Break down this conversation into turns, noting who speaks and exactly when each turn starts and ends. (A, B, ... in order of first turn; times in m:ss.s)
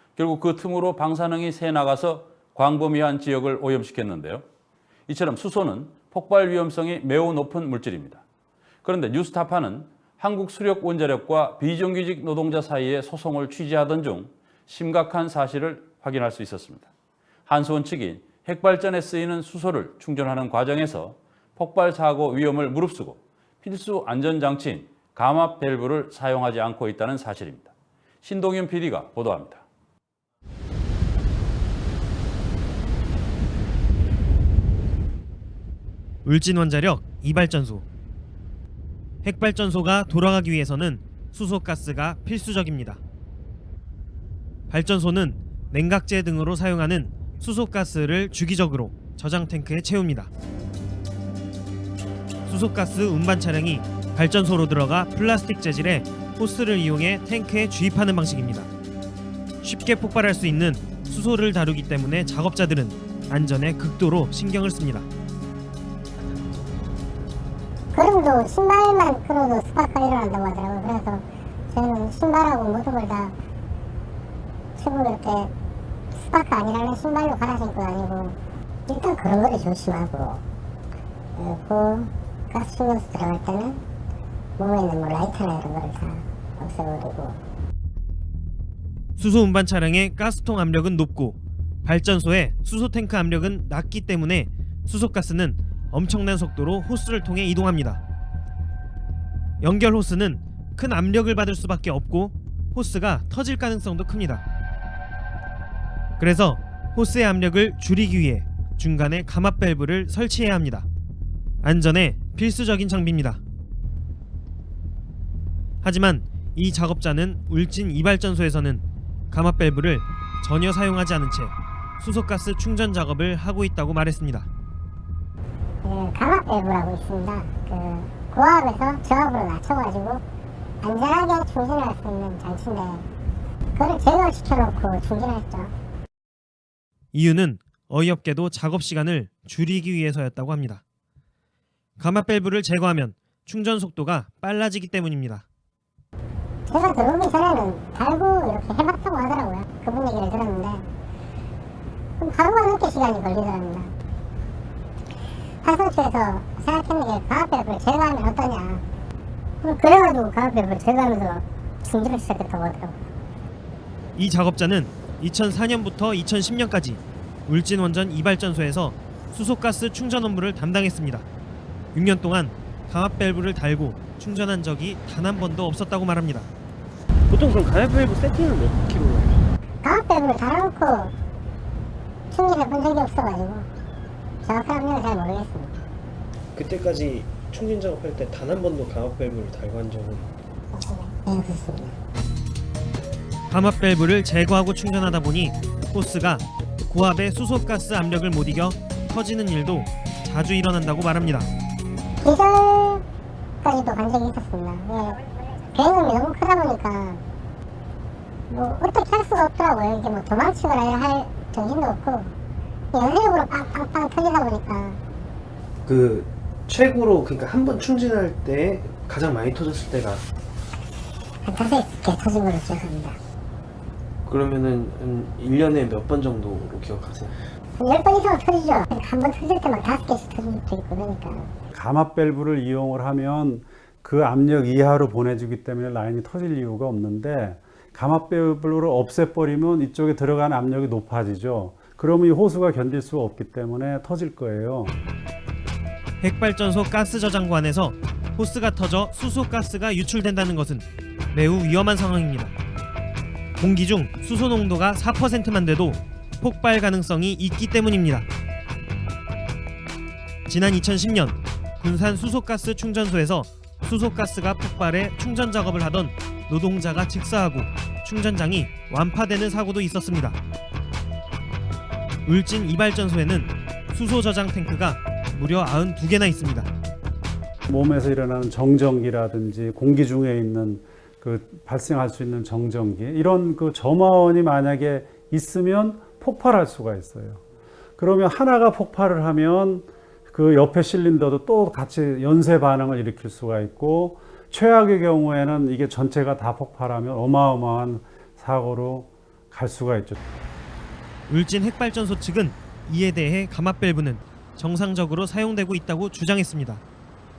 0:00.2-0:04.4 A
0:05.1-0:08.2 A
0:08.8-0:16.9 A
0:17.5-0:27.7 A
0:28.2-0:29.6 A
0:36.2-0:37.8 B
0:39.2-0:43.0 B
0:44.7-0:50.3 B
0:52.4-0:58.7 B
0:59.6-1:05.1 B
1:07.9-1:13.3 C
1:14.8-1:15.5 C
1:16.1-1:18.4 C
1:18.9-1:20.4 C
1:21.4-1:23.8 C
1:24.6-1:27.4 C
1:29.2-1:38.0 B
1:39.6-1:44.4 B
1:46.2-1:50.9 B
1:51.6-1:53.4 B
1:55.8-2:04.5 B
2:05.8-2:10.2 C
2:10.8-2:13.0 C
2:13.8-2:15.7 C
2:17.1-2:20.8 B
2:22.0-2:25.4 B
2:26.7-2:30.8 C
2:32.2-2:33.9 C
2:35.6-2:38.8 C
2:39.6-2:43.0 C
2:44.2-2:51.2 B
2:51.9-2:56.5 B
2:57.3-2:59.3 D
2:59.8-3:01.1 C
3:02.3-3:03.6 C
3:04.4-3:05.7 C
3:06.5-3:10.3 D
3:10.7-3:11.9 C
3:13.5-3:21.5 B
3:22.2-3:23.0 C
3:23.6-3:25.2 C
3:25.7-3:27.2 C
3:28.5-3:32.3 C
3:32.9-3:35.0 C
3:35.8-3:40.2 D
3:41.4-3:43.2 C
3:44.2-3:47.4 D
3:47.8-3:51.5 C
3:51.7-4:05.0 E
4:06.2-4:12.5 B
4:13.6-4:18.3 B
4:20.5-4:30.4 B
4:32.2-4:36.7 B
4:37.7-4:47.4 E
4:48.0-5:00.2 E
5:01.3-5:06.8 B